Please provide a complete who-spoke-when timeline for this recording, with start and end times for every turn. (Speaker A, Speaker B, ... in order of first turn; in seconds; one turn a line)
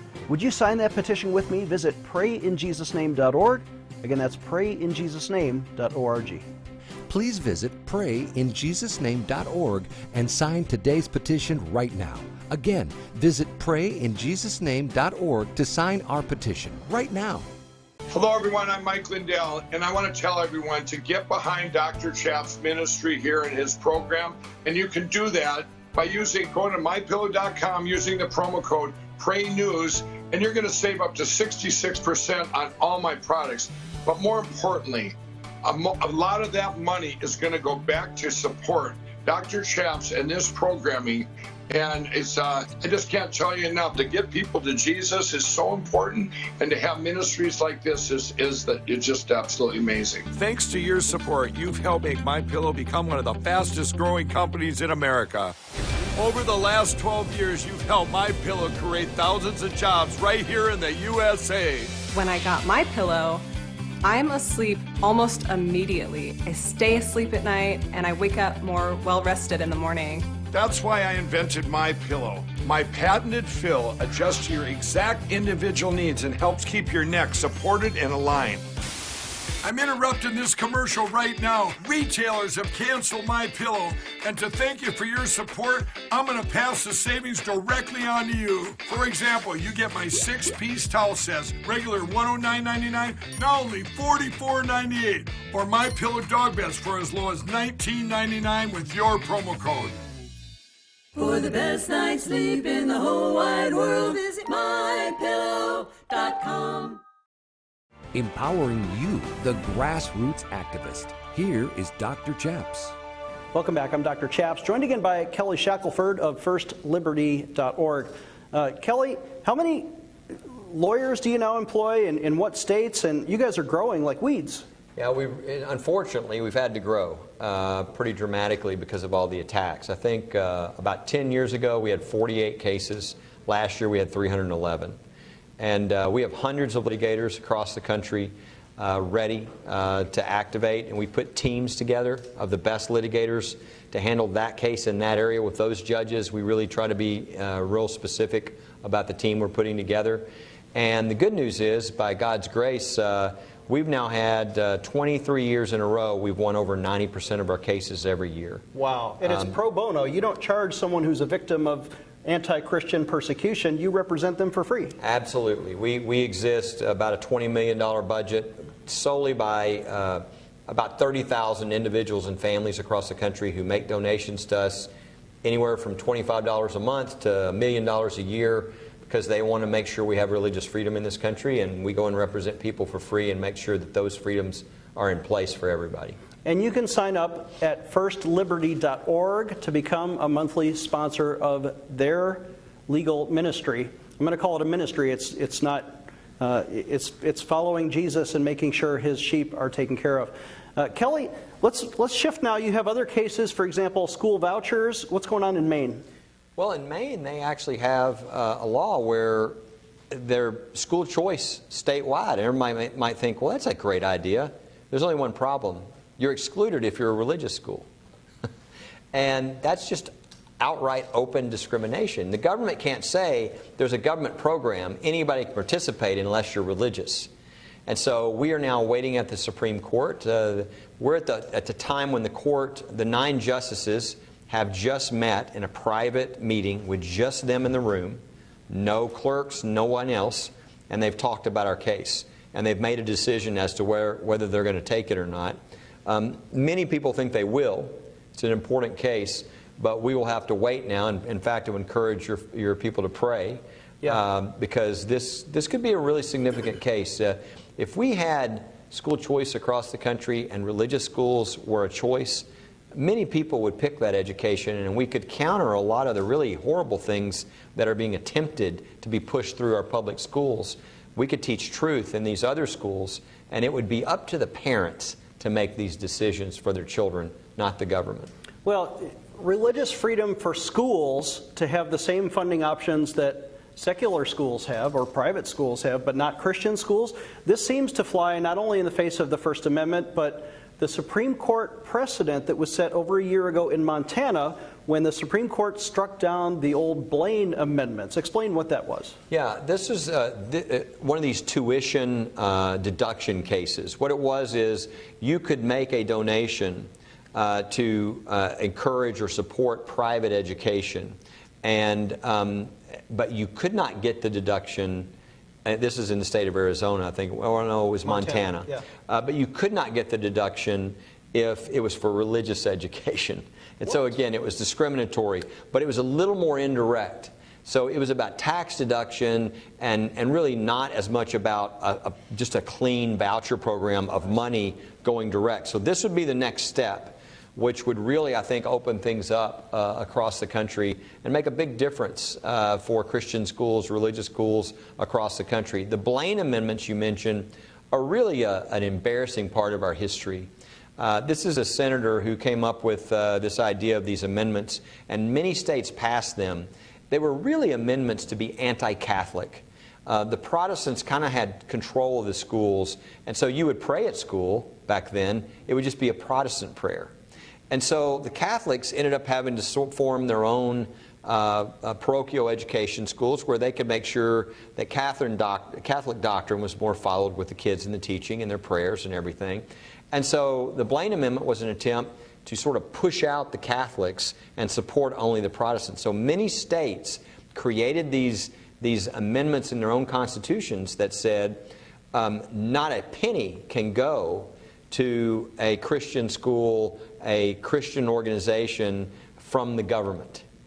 Speaker A: 0.3-6.5
Speaker B: 7.1-17.5
Speaker C: 18.1-50.3
Speaker D: 50.3-55.5
Speaker D: 56.2-61.9
Speaker E: 62.1-63.4
Speaker E: 64.0-70.3
Speaker D: 70.5-78.6
Speaker D: 79.7-94.2
Speaker D: 94.8-99.9
Speaker F: 101.2-107.0
Speaker B: 108.1-113.0
Speaker A: 113.5-119.9
Speaker A: 120.6-124.7
Speaker G: 125.0-135.0
Speaker G: 135.6-158.6
Speaker A: 158.7-165.0
Speaker G: 159.2-159.6
Speaker G: 165.0-174.9
Speaker G: 175.4-186.2
Speaker A: 186.4-206.0
Speaker G: 206.6-209.6
Speaker G: 210.1-217.9
Speaker G: 219.1-227.3
Speaker G: 227.9-278.3
Speaker A: 278.6-299.2
Speaker G: 299.3-315.1
Speaker G: 315.6-367.1
Speaker A: 318.0-318.9
Speaker G: 367.7-400.4